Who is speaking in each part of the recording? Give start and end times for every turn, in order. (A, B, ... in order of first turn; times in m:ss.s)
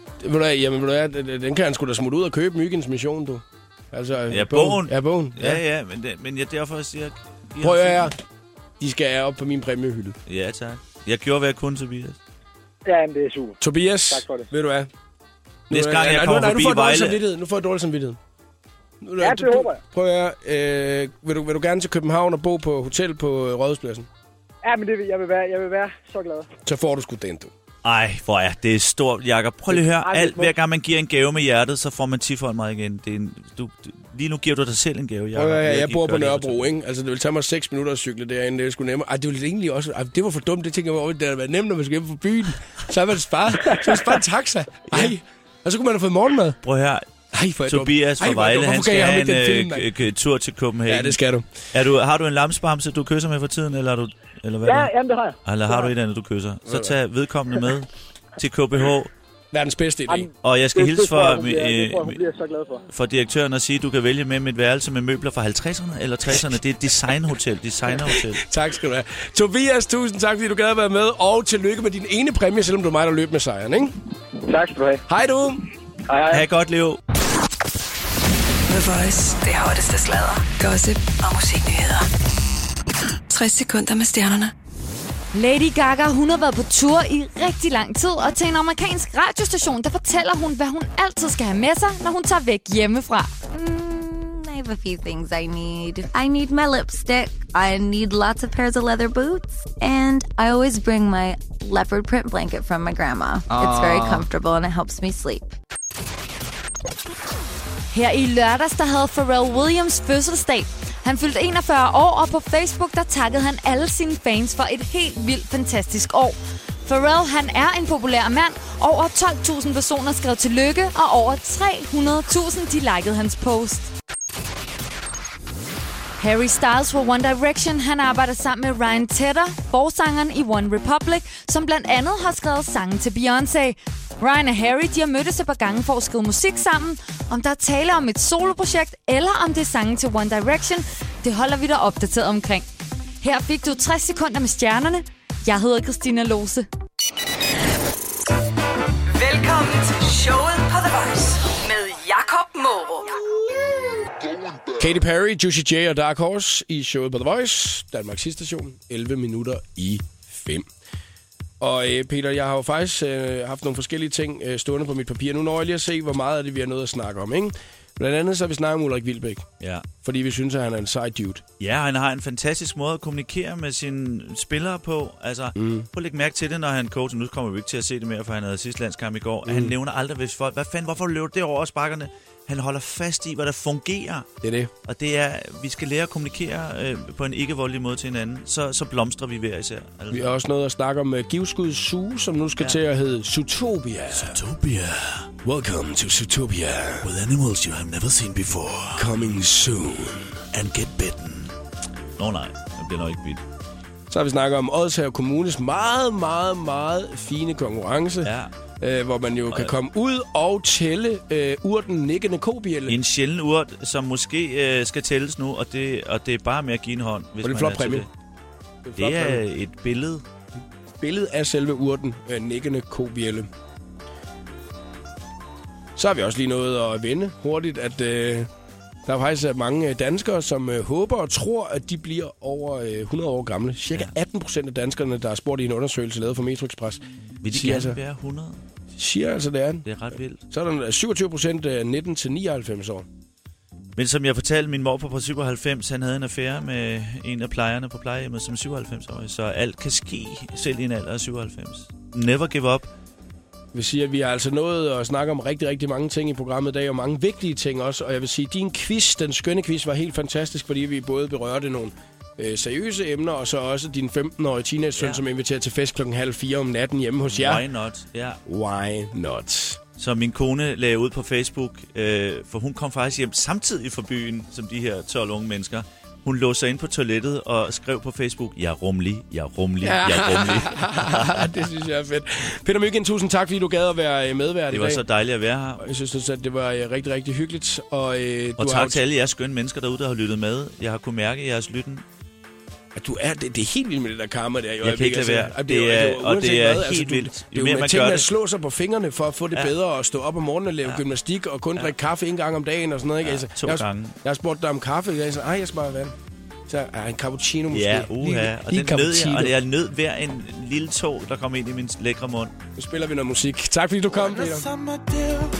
0:00.2-0:05.6 A
0:04.3-0:08.1 B
0:07.6-0:08.1 A
0:08.8-0:10.2 A
0:10.2-0:12.2 B
0:12.8-0:13.6 C
0:13.6-0:14.9 A
0:14.1-0:14.5 C
0:15.7-0:17.2 B
0:15.7-0:18.2 A
0:19.0-0:24.1 A
0:19.2-0:19.8 C
0:24.6-0:26.5 C
0:26.6-0:27.5 A
0:27.8-0:36.7 B
0:29.9-0:30.5 C
0:35.3-0:46.6 A
0:46.6-0:47.0 B
0:47.3-0:49.8 A
0:47.6-0:51.2 B
0:50.9-0:51.4 A
0:51.7-0:54.9 B
0:54.6-0:55.9 C
0:55.4-0:59.1 B
0:56.7-0:56.9 A
0:59.5-1:00.3 A
1:00.1-1:02.8 C
1:00.4-1:02.2 B
1:02.9-1:08.4 B
1:08.1-1:13.9 A
1:14.4-1:15.0 C
1:15.1-1:15.6 A
1:16.1-1:16.4 C
1:16.3-1:17.0 B
1:18.7-1:22.1 D
1:23.3-1:24.5 D
1:25.3-1:33.3 E
1:33.5-1:45.5 F
1:47.9-2:03.9 E
2:06.2-2:22.6 E
2:23.2-2:26.7 E
2:29.1-2:33.1 G
2:34.8-2:40.7 A
2:41.6-2:49.4 A
2:49.6-2:49.9 B
2:50.0-2:51.4 A
2:51.6-3:04.3 B
2:55.6-2:55.9 A
2:59.4-2:59.7 A
3:04.4-3:04.7 A
3:04.8-3:10.4 B
3:10.1-3:14.4 A
3:14.1-3:15.3 B
3:15.4-3:17.1 A
3:17.0-3:19.1 B
3:19.0-3:20.4 A
3:20.5-3:21.5 B
3:22.2-3:23.4 B
3:24.1-3:33.0 A
3:28.2-3:28.5 B
3:29.5-3:29.8 B
3:32.9-3:38.1 B
3:37.4-3:38.0 A
3:38.8-3:39.4 A
3:39.0-3:40.2 B
3:41.0-3:43.5 A
3:46.0-3:48.5 A
3:49.0-3:58.0 A
3:57.4-3:58.6 B
3:59.0-3:59.9 A
3:59.8-4:00.4 B
4:00.5-4:03.0 A
4:04.0-4:12.9 B
4:13.7-4:27.6 A
4:25.0-4:25.2 B
4:27.2-4:28.4 B
4:28.4-4:29.8 A
4:30.0-4:41.7 B
4:39.8-4:45.0 A
4:44.7-4:45.8 B
4:45.8-4:49.0 A
4:48.6-4:52.0 B
4:52.9-5:06.1 A
4:54.8-4:58.3 B
5:03.2-5:04.2 B
5:06.7-5:09.5 A
5:07.7-5:12.6 B
5:12.8-5:14.7 A
5:14.4-5:15.4 B